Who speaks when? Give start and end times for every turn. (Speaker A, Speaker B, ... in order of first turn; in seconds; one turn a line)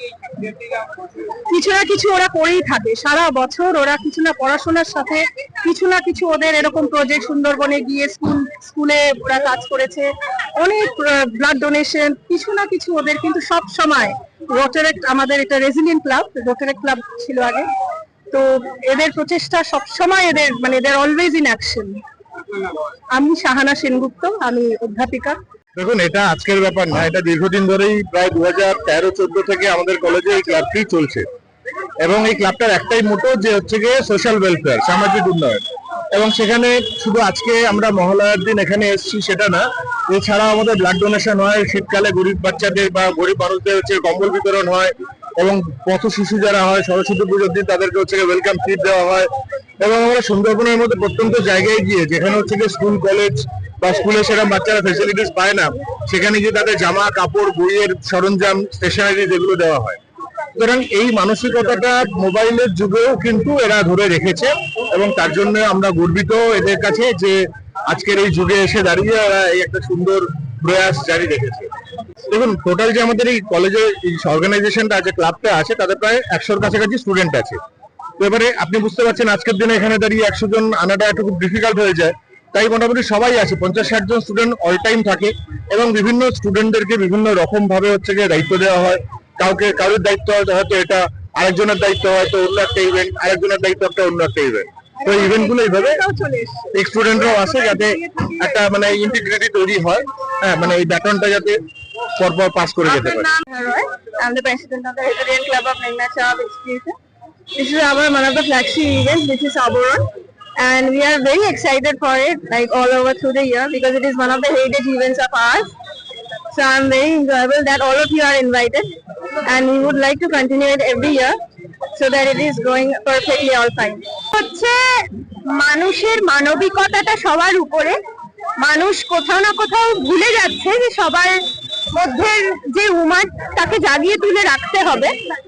Speaker A: 0.5-17.7
Speaker A: 18.3-22.0
Speaker A: 23.1-25.4
Speaker B: 25.8-31.3
Speaker B: 32.0-35.6
Speaker B: 36.1-49.3
Speaker B: 49.8-60.0
Speaker B: 60.6-67.4
Speaker B: 67.9-71.7
Speaker B: 72.3-77.6
Speaker B: 78.2-96.0
Speaker A: 95.7-96.7
Speaker B: 96.7-101.6
Speaker A: 97.3-97.8
Speaker B: 102.2-103.3
Speaker C: 102.8-107.0
Speaker C: 107.6-110.1
Speaker C: 110.6-115.7
Speaker C: 116.5-118.9
Speaker C: 119.5-121.4
Speaker C: 121.9-128.0
Speaker C: 128.6-135.2